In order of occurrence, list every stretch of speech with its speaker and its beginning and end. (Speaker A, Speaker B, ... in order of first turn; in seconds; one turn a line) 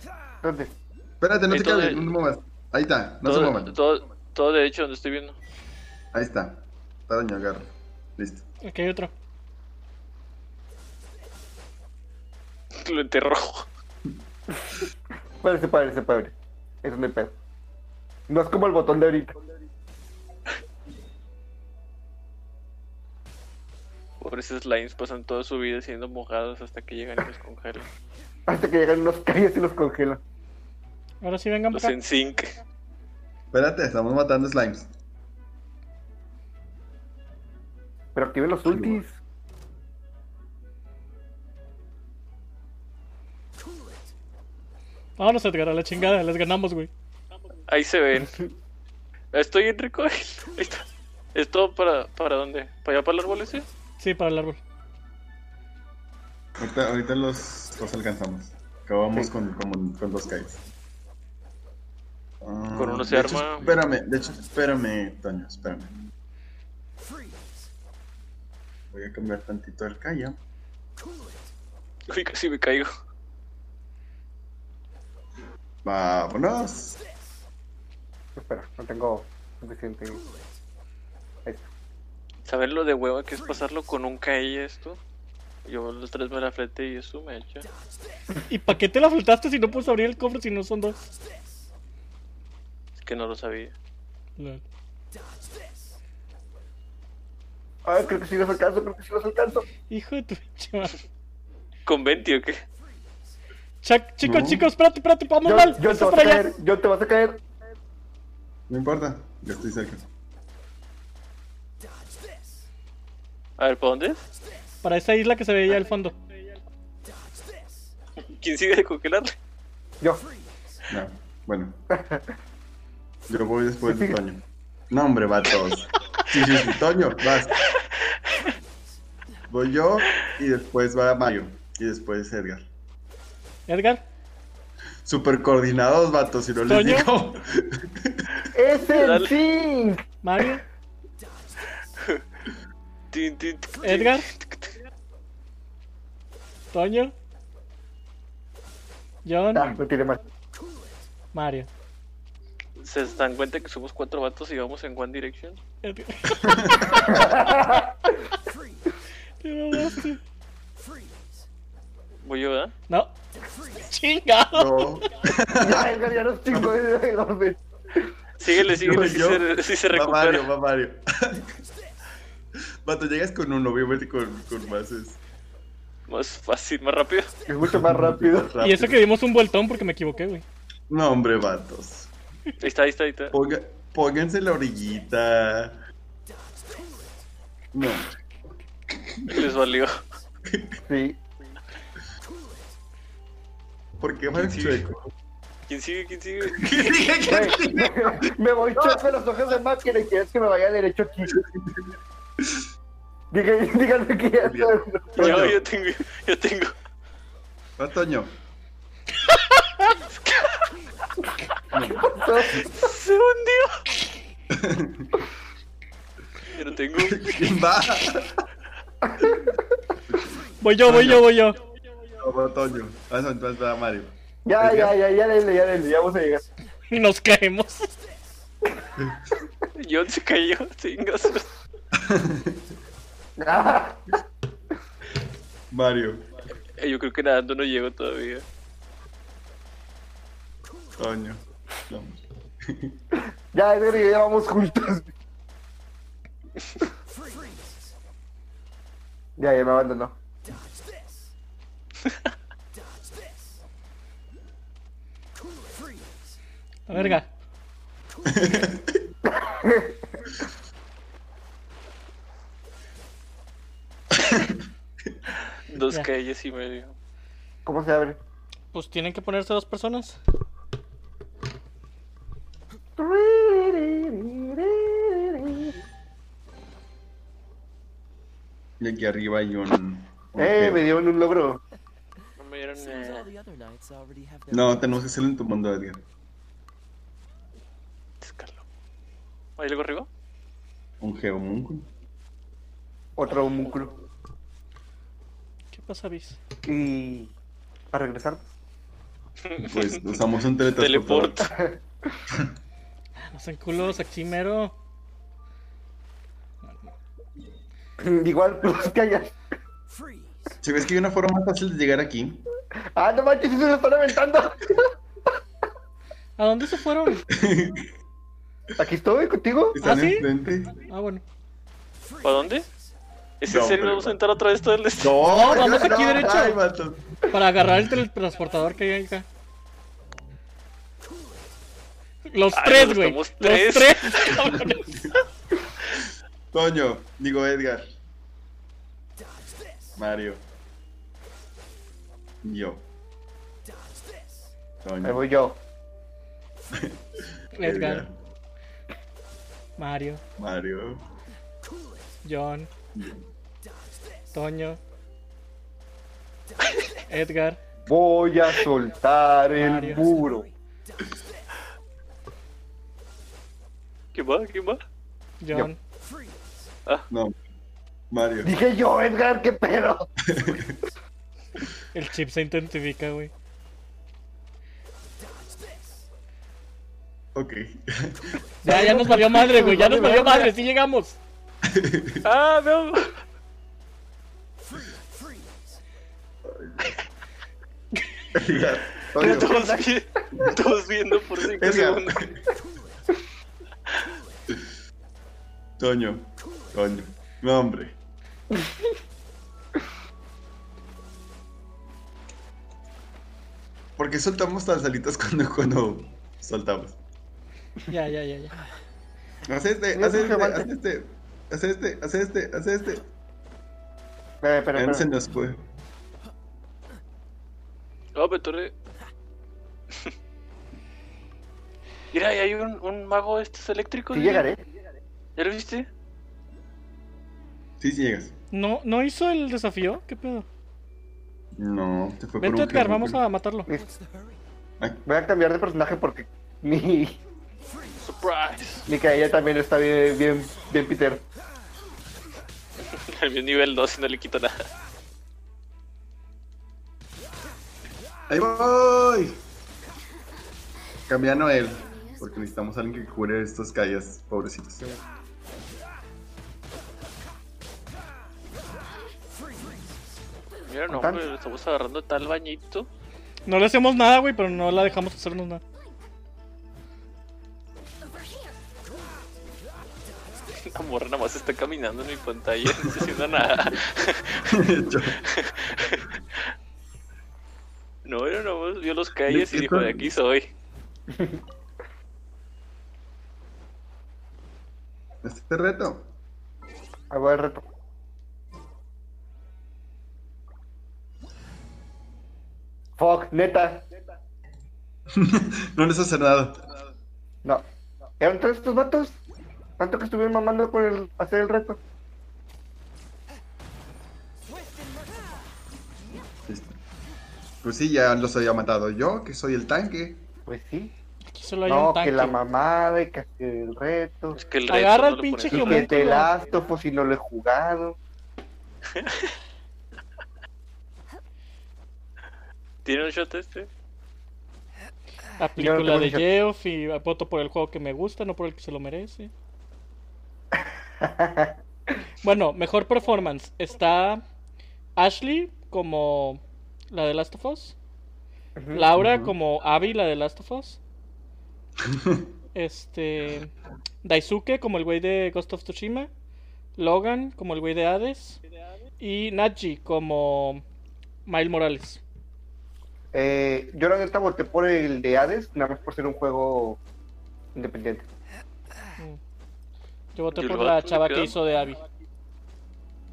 Speaker A: 0.4-0.7
Speaker B: 1.2-3.8
Speaker C: 1.5-2.1
Speaker C: 3.2-5.4
Speaker B: 6.1-8.4
Speaker D: 8.6-9.1
Speaker C: 12.7-13.7
Speaker A: 14.5-14.8
Speaker A: 15.4-17.4
Speaker A: 18.3-19.4
Speaker C: 24.2-27.9
Speaker A: 28.5-30.2
Speaker D: 31.2-31.9
Speaker C: 31.7-32.6
Speaker B: 33.5-34.9
Speaker A: 38.1-39.2
Speaker B: 38.7-39.0
Speaker D: 45.2-46.9
Speaker C: 47.7-48.4
Speaker C: 49.3-53.7
Speaker D: 54.0-54.6
Speaker B: 56.6-60.6
Speaker B: 62.4-66.0
Speaker C: 62.8-63.8
Speaker B: 68.9-70.4
Speaker C: 72.1-72.9
Speaker B: 75.8-77.0
Speaker A: 78.4-80.2
Speaker C: 82.5-85.0
Speaker C: 85.7-87.7
Speaker D: 88.5-91.0
Speaker C: 93.0-93.7
Speaker D: 94.4-94.6
Speaker A: 97.8-99.7
Speaker D: 99.9-101.0
Speaker C: 101.9-102.6
Speaker D: 103.8-106.5
Speaker B: 104.2-104.7
Speaker A: 105.5-107.4
Speaker B: 108.7-110.0
Speaker C: 113.6-114.2
Speaker D: 114.8-116.2
Speaker C: 118.2-119.3
Speaker B: 120.9-121.8
Speaker A: 121.9-122.3
Speaker B: 123.3-127.5
Speaker A: 123.9-124.2
Speaker B: 129.5-132.7
Speaker D: 133.7-134.0
Speaker B: 135.0-138.3
Speaker D: 136.7-137.1
Speaker A: 138.5-140.0
Speaker C: 138.9-139.3
Speaker D: 140.2-140.6
Speaker C: 141.9-142.2
Speaker C: 143.1-144.8
Speaker D: 143.8-144.3
Speaker D: 146.7-147.1
Speaker D: 149.2-149.8
Speaker A: 149.6-150.2
Speaker D: 151.3-151.7
Speaker C: 152.8-155.6
Speaker D: 155.8-157.2
Speaker B: 156.4-157.1
Speaker A: 156.9-158.3
Speaker D: 159.4-160.2
Speaker C: 162.2-162.7
Speaker D: 163.8-165.1
Speaker B: 164.5-165.9
Speaker A: 165.5-168.1
Speaker C: 168.4-170.5
Speaker B: 168.7-171.6
Speaker B: 172.8-175.2
Speaker C: 176.1-177.3
Speaker A: 177.5-178.6
Speaker B: 177.6-179.0
Speaker D: 178.6-180.4
Speaker B: 180.9-182.1
Speaker C: 182.6-183.3
Speaker B: 183.3-185.8
Speaker B: 187.7-188.1
Speaker B: 188.9-189.5
Speaker C: 189.3-190.0
Speaker B: 190.5-190.8
Speaker A: 190.9-191.2
Speaker B: 194.0-195.1
Speaker C: 194.4-194.8
Speaker C: 195.7-196.9
Speaker B: 196.4-199.0
Speaker A: 197.3-201.3
Speaker B: 201.3-201.9
Speaker A: 203.3-205.6
Speaker B: 204.4-205.6
Speaker C: 205.2-206.7
Speaker B: 207.8-208.3
Speaker C: 209.8-210.7
Speaker B: 211.7-212.2
Speaker A: 212.1-212.9
Speaker C: 212.6-213.8
Speaker B: 214.5-215.1
Speaker C: 216.5-217.6
Speaker B: 216.9-218.4
Speaker A: 219.1-219.6
Speaker B: 220.1-221.3
Speaker D: 220.6-221.6
Speaker B: 222.2-224.9
Speaker A: 224.4-226.5
Speaker D: 226.9-227.9
Speaker B: 229.0-229.3
Speaker C: 229.8-231.5
Speaker B: 231.9-232.6
Speaker A: 233.4-234.0
Speaker B: 235.7-236.3
Speaker C: 236.8-238.4
Speaker B: 241.0-242.9
Speaker A: 243.5-245.1
Speaker A: 249.4-250.2
Speaker D: 256.9-257.3
Speaker B: 256.9-257.2
Speaker B: 258.2-259.1
Speaker A: 259.3-260.0
Speaker B: 264.2-264.6
Speaker C: 265.7-266.9
Speaker A: 267.6-268.2
Speaker D: 268.7-270.2
Speaker A: 273.0-275.8
Speaker B: 278.8-280.9
Speaker A: 280.4-281.6
Speaker C: 282.4-283.3
Speaker E: 282.8-285.2
Speaker B: 284.5-286.1
Speaker C: 288.2-288.6
Speaker C: 289.6-290.1
Speaker B: 291.0-291.9
Speaker A: 293.2-293.9
Speaker D: 295.7-296.4
Speaker A: 296.6-297.3
Speaker A: 297.9-298.5
Speaker C: 299.4-300.2
Speaker B: 299.6-301.5
Speaker C: 300.7-301.5
Speaker A: 301.5-302.2
Speaker D: 303.3-304.8
Speaker A: 308.0-309.3
Speaker E: 309.9-310.6
Speaker B: 310.6-312.4
Speaker A: 313.0-314.9
Speaker D: 316.4-317.3
Speaker B: 317.3-317.9
Speaker A: 318.8-319.8
Speaker B: 319.7-320.8
Speaker D: 319.8-321.2
Speaker C: 322.2-322.7
Speaker C: 323.4-325.2
Speaker B: 323.5-324.2
Speaker B: 325.0-327.2
Speaker D: 325.2-326.6
Speaker D: 327.3-329.3
Speaker D: 332.3-335.2
Speaker C: 332.5-334.5
Speaker B: 336.5-337.9
Speaker B: 340.0-340.4
Speaker B: 342.4-342.8
Speaker B: 344.8-345.2
Speaker A: 345.0-345.6
Speaker B: 346.7-348.1
Speaker D: 347.6-348.1
Speaker D: 349.8-350.2
Speaker B: 350.4-351.0
Speaker D: 352.2-352.7
Speaker B: 352.9-353.2
Speaker D: 354.3-354.8
Speaker D: 357.1-357.6
Speaker A: 357.9-360.5
Speaker D: 359.6-360.2
Speaker E: 359.9-360.5
Speaker C: 364.1-364.8
Speaker D: 365.4-365.8
Speaker B: 367.1-367.4
Speaker B: 368.1-368.5
Speaker A: 368.4-370.4
Speaker B: 370.2-370.8
Speaker D: 371.9-373.3
Speaker B: 377.4-378.4
Speaker A: 378.6-380.5
Speaker D: 378.6-381.2
Speaker B: 381.6-382.3
Speaker C: 382.2-383.2
Speaker B: 386.5-386.9
Speaker B: 388.3-389.6
Speaker C: 389.1-392.2
Speaker A: 389.2-389.9
Speaker B: 391.4-392.5
Speaker B: 395.8-398.0
Speaker A: 398.5-398.9
Speaker B: 404.0-407.0
Speaker D: 407.9-408.6
Speaker B: 409.5-413.1
Speaker A: 409.9-410.7
Speaker A: 414.4-415.1
Speaker B: 414.8-415.6
Speaker C: 418.1-418.8
Speaker C: 422.1-424.5
Speaker A: 424.1-424.6
Speaker C: 425.4-425.9
Speaker B: 427.8-428.3
Speaker D: 428.5-430.5
Speaker B: 431.6-433.2
Speaker D: 432.4-433.7
Speaker E: 433.7-434.4
Speaker A: 435.1-437.2
Speaker C: 438.0-438.9
Speaker A: 438.9-441.2
Speaker C: 443.0-444.7
Speaker B: 448.3-449.4
Speaker B: 451.1-454.9
Speaker C: 460.7-462.9
Speaker A: 460.9-461.2
Speaker D: 463.5-465.6
Speaker C: 470.7-474.4
Speaker B: 472.7-473.1
Speaker B: 474.4-475.2
Speaker C: 475.2-476.4
Speaker C: 478.1-480.5
Speaker B: 479.3-480.1
Speaker A: 481.1-481.4
Speaker B: 485.2-486.1
Speaker A: 487.1-487.6
Speaker A: 493.0-493.9
Speaker B: 495.1-496.7
Speaker A: 498.2-499.2
Speaker A: 499.8-501.8
Speaker E: 505.0-505.4
Speaker B: 506.5-506.8
Speaker B: 507.6-510.3
Speaker A: 510.5-510.9
Speaker D: 511.3-512.4
Speaker A: 511.7-514.4
Speaker C: 514.4-516.1
Speaker D: 514.7-516.3
Speaker A: 515.5-518.0
Speaker C: 518.9-519.3
Speaker C: 522.9-523.7
Speaker D: 525.4-529.3
Speaker A: 525.6-526.3
Speaker A: 531.0-531.6
Speaker D: 532.2-534.2
Speaker D: 535.0-537.8
Speaker A: 538.6-538.9
Speaker D: 538.7-540.8
Speaker B: 539.0-539.4
Speaker B: 541.8-542.3
Speaker D: 542.5-543.5
Speaker D: 544.0-546.1
Speaker D: 546.8-548.4
Speaker D: 549.0-550.6
Speaker D: 551.3-552.0
Speaker A: 553.1-556.8
Speaker A: 557.5-558.1
Speaker D: 560.1-561.8
Speaker C: 560.4-561.3